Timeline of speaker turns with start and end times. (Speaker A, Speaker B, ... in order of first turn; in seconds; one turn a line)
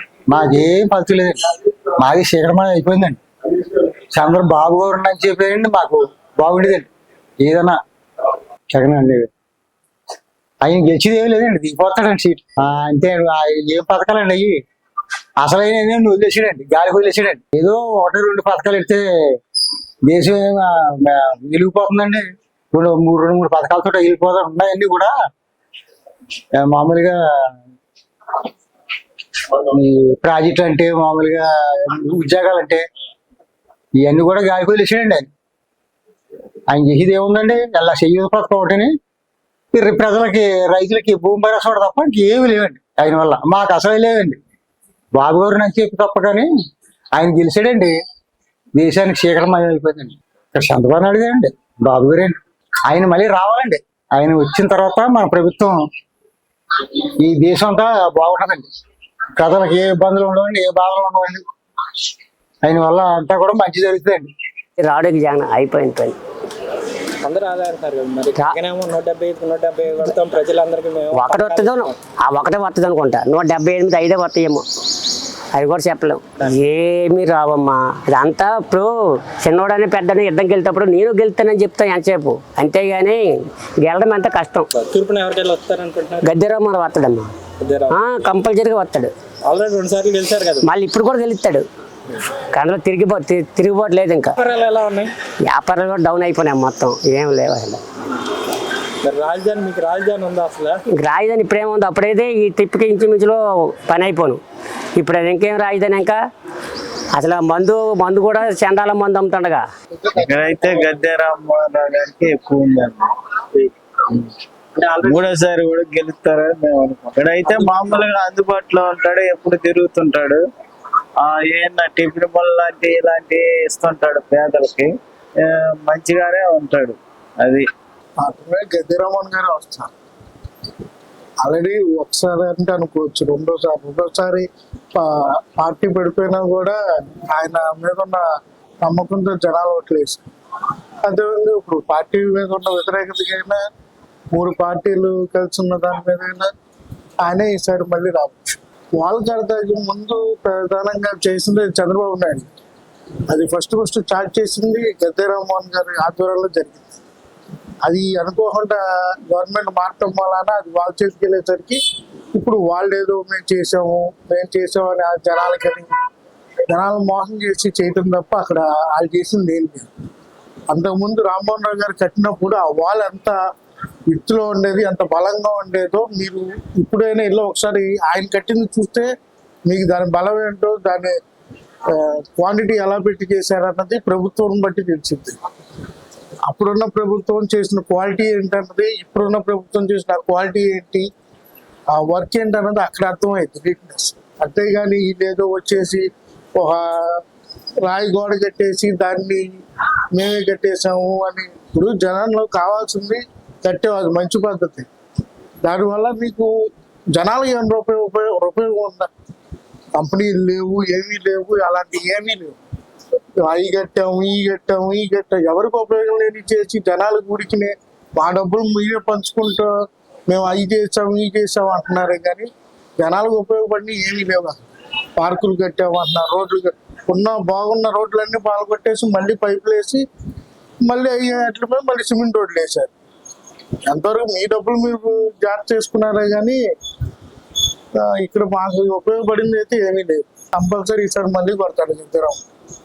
Speaker A: 0.3-1.4
Speaker A: 2.0-6.9
Speaker A: 7.4-7.8
Speaker A: 8.7-9.3
Speaker A: 10.6-14.6
Speaker A: 15.4-19.0
Speaker A: 20.1-25.1
Speaker A: 26.6-27.2
Speaker A: 29.5-32.8
Speaker A: 34.0-35.3
Speaker A: 36.7-38.9
Speaker A: 39.7-44.4
Speaker A: 45.1-46.5
Speaker A: 47.1-47.9
Speaker A: 48.7-52.3
Speaker A: 52.9-55.8
Speaker A: 57.2-58.6
Speaker A: 59.4-61.4
Speaker A: 62.6-64.3
Speaker B: 64.8-66.2
Speaker C: 67.2-72.0
Speaker B: 71.1-74.6
Speaker B: 75.5-84.7
Speaker C: 84.7-86.3
Speaker B: 86.2-87.3
Speaker C: 87.6-88.0
Speaker B: 87.9-89.1
Speaker C: 89.5-90.7
Speaker B: 90.6-91.7
Speaker B: 92.4-94.3
Speaker C: 94.4-95.1
Speaker B: 95.5-97.8
Speaker C: 99.0-100.8
Speaker B: 101.0-104.4
Speaker B: 105.0-106.2
Speaker B: 107.1-109.6
Speaker D: 110.1-120.4
Speaker D: 121.2-127.7
Speaker E: 128.2-129.9
Speaker E: 131.4-134.4
Speaker E: 135.0-136.8
Speaker E: 137.3-138.2
Speaker E: 138.8-140.2
Speaker E: 141.0-143.7
Speaker E: 144.3-146.5
Speaker E: 147.2-152.5
Speaker E: 153.3-157.0
Speaker E: 157.8-161.8
Speaker E: 162.3-165.9
Speaker E: 166.7-169.9
Speaker E: 170.7-173.4
Speaker E: 174.1-179.1
Speaker E: 179.7-181.2
Speaker E: 181.9-185.4
Speaker E: 186.5-191.1
Speaker E: 191.9-196.0
Speaker E: 196.6-197.2
Speaker E: 197.8-199.5
Speaker E: 200.1-204.9
Speaker E: 205.6-206.5
Speaker E: 207.1-209.1
Speaker E: 210.0-212.6
Speaker E: 213.4-219.7
Speaker E: 220.3-222.5
Speaker E: 223.0-224.6
Speaker E: 225.2-230.0
Speaker E: 230.8-232.9
Speaker E: 233.9-236.6
Speaker E: 238.0-242.4